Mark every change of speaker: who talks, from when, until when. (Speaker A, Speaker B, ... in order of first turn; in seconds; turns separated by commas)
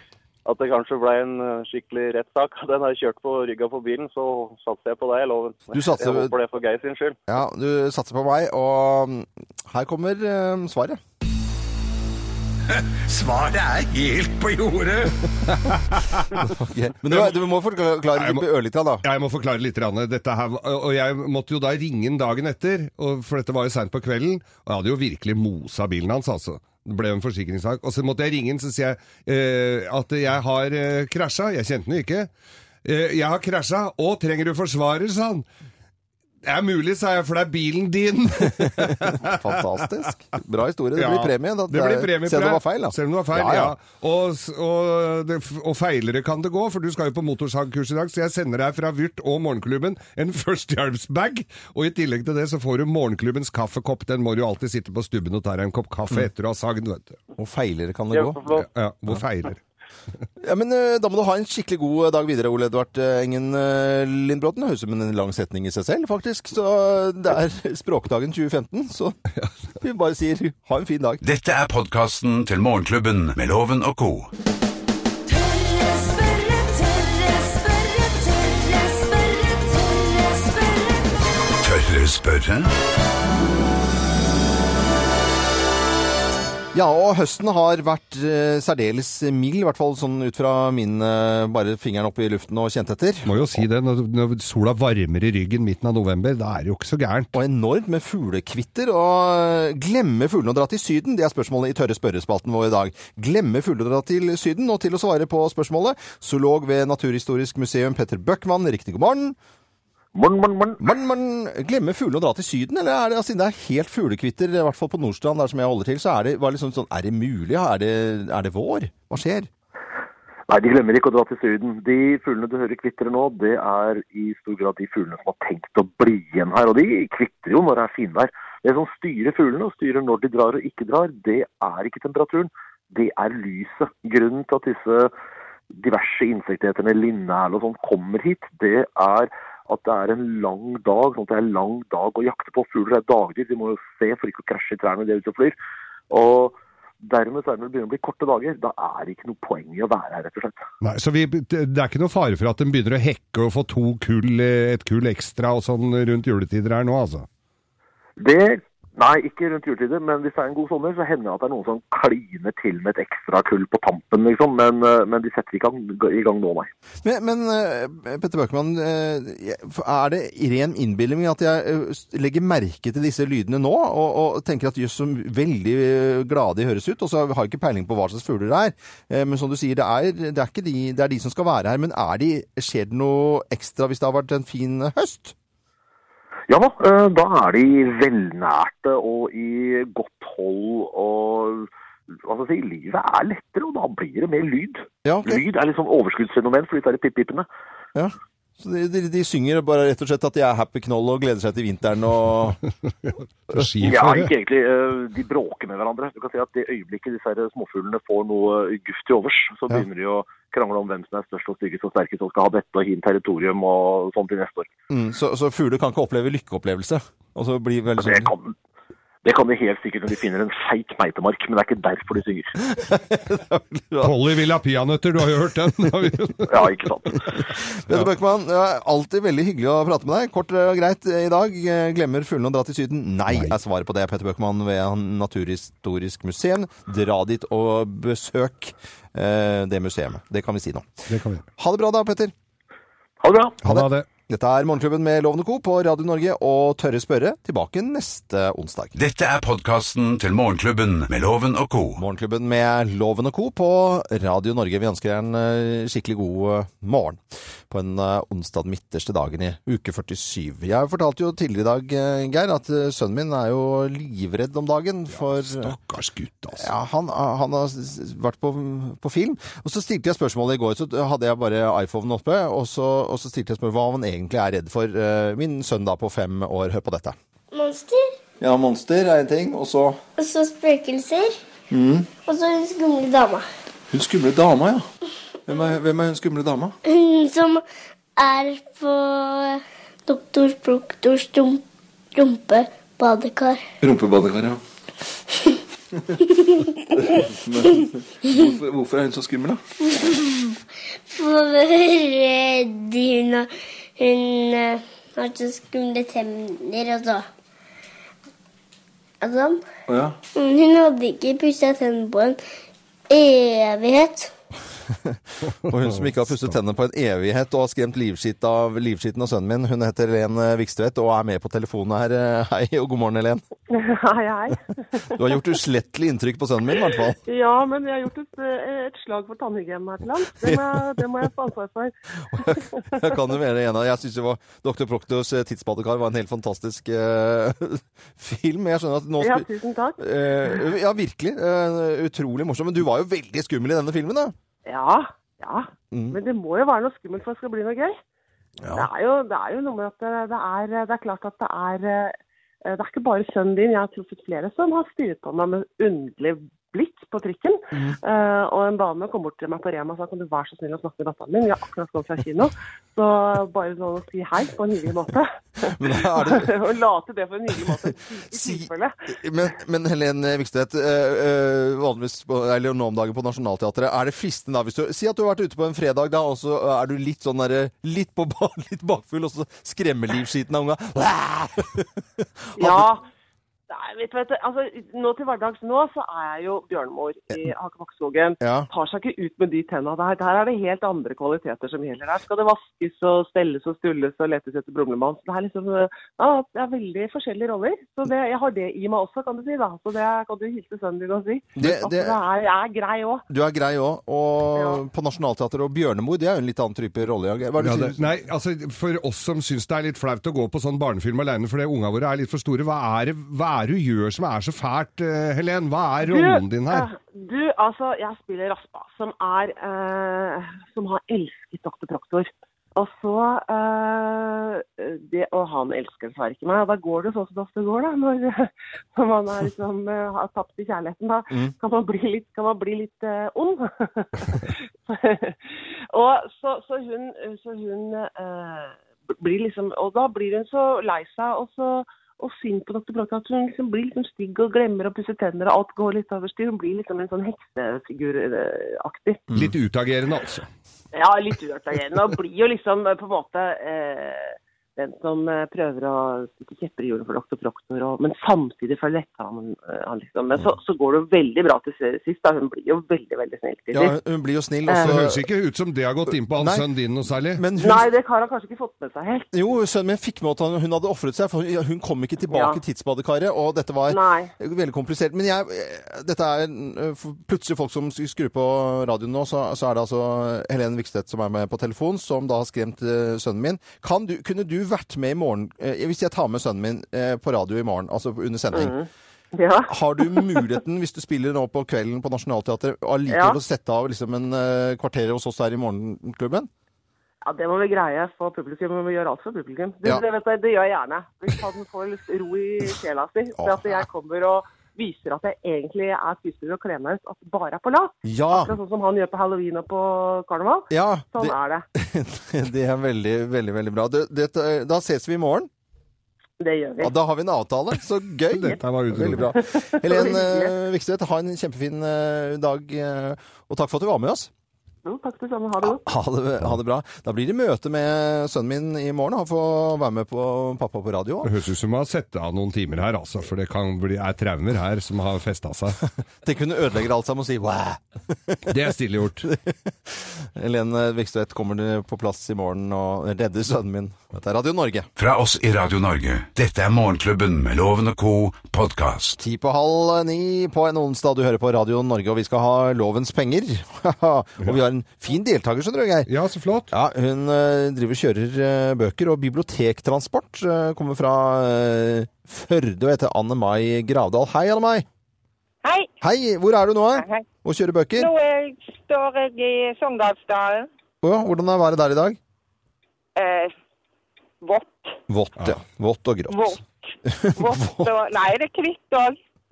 Speaker A: 0.4-7.2, Speaker B: 5.7-6.3, Speaker B: 7.3-11.0, Speaker C: 12.8-15.1, Speaker D: 15.5-16.5, Speaker B: 16.4-19.0, Speaker D: 17.1-17.4, Speaker D: 18.1-18.4, Speaker D: 19.0-32.3, Speaker D: 32.8-35.5, Speaker D: 36.4-39.5, Speaker B: 38.6-43.8, Speaker D: 41.0-57.2, Speaker B: 57.4-58.4, Speaker A: 58.1-58.6, Speaker D: 58.5-59.6, Speaker B: 60.4-69.2, Speaker B: 69.8-71.2, Speaker C: 71.2-74.3, Speaker E: 75.2-81.2, Speaker C: 81.6-82.7, Speaker B: 86.7-93.6, Speaker D: 93.2-97.3, Speaker B: 97.3-109.4, Speaker F: 110.1-110.8, Speaker B: 110.8-119.5, Speaker F: 120.5-135.1, Speaker F: 135.7-145.6, Speaker F: 146.1-150.6, Speaker D: 150.8-157.3, Speaker F: 158.2-166.7, Speaker B: 167.0-185.3, Speaker F: 186.5-197.5, Speaker B: 195.0-195.4, Speaker B: 197.9-202.6, Speaker D: 203.1-204.3, Speaker F: 203.8-214.7, Speaker B: 214.9-218.3, Speaker F: 218.0-218.5, Speaker F: 219.2-222.5, Speaker B: 222.7-224.1, Speaker D: 224.0-226.8, Speaker F: 226.5-227.2, Speaker B: 227.6-241.0, Speaker D: 241.1-241.4, Speaker B: 241.6-242.3, Speaker F: 243.2-243.6, Speaker D: 243.6-244.1, Speaker B: 243.6-248.9, Speaker C: 248.9-252.0, Speaker B: 252.0-265.7, Speaker D: 265.3-266.7, Speaker B: 266.5-277.1, Speaker G: 277.5-278.1, Speaker B: 278.4-280.0, Speaker G: 280.2-281.4, Speaker B: 281.7-282.1, Speaker G: 282.2-283.5, Speaker B: 283.9-284.8, Speaker B: 285.4-286.7, Speaker G: 286.9-287.6, Speaker G: 288.2-291.6, Speaker G: 292.1-293.6, Speaker B: 293.8-294.6, Speaker G: 296.5-297.2, Speaker B: 297.0-299.6, Speaker G: 299.9-300.6, Speaker G: 301.1-307.3, Speaker G: 309.2-309.6, Speaker B: 309.9-310.1, Speaker G: 310.4-312.4, Speaker G: 313.1-314.3, Speaker B: 314.9-323.4, Speaker H: 323.7-325.2, Speaker B: 325.1-327.2, Speaker H: 327.2-333.0, Speaker B: 330.4-330.8, Speaker B: 332.3-339.5, Speaker H: 339.2-340.0, Speaker B: 340.0-344.3, Speaker H: 344.6-348.0, Speaker B: 345.9-346.2, Speaker B: 348.6-348.9, Speaker H: 348.7-368.9, Speaker B: 357.7-358.0, Speaker B: 365.6-366.5, Speaker B: 368.3-382.9, Speaker H: 382.6-383.1, Speaker H: 383.7-403.2, Speaker B: 388.4-388.7, Speaker B: 401.6-402.2, Speaker B: 403.3-408.0, Speaker H: 404.6-404.8, Speaker D: 407.6-416.9, Speaker H: 416.0-449.2, Speaker D: 449.3-450.5, Speaker H: 450.9-463.9, Speaker B: 463.7-465.2, Speaker H: 464.7-464.9, Speaker D: 464.8-467.4, Speaker B: 466.4-466.7, Speaker B: 467.3-467.9, Speaker H: 467.6-469.3, Speaker B: 469.3-488.7, Speaker H: 472.3-472.6, Speaker H: 473.9-474.3, Speaker H: 488.5-490.5, Speaker B: 489.7-496.5, Speaker H: 493.1-493.4, Speaker H: 497.2-511.6, Speaker B: 503.4-503.8, Speaker B: 508.0-508.5, Speaker B: 510.7-515.5, Speaker H: 516.4-516.9, Speaker B: 516.8-524.3, Speaker D: 518.3-519.3, Speaker H: 519.1-520.5, Speaker H: 524.8-525.8, Speaker B: 525.6-531.3, Speaker D: 531.2-535.8, Speaker B: 536.2-538.6, Speaker D: 538.5-539.3, Speaker B: 539.2-544.9, Speaker C: 545.0-549.2, Speaker B: 549.2-556.1, Speaker D: 556.1-556.7, Speaker B: 556.7-564.9, Speaker I: 565.6-565.9, Speaker B: 566.0-568.1, Speaker I: 567.0-567.2, Speaker I: 568.0-570.7, Speaker B: 571.0-572.2, Speaker I: 573.1-573.5, Speaker I: 574.4-575.0, Speaker B: 575.1-577.9, Speaker I: 576.3-579.2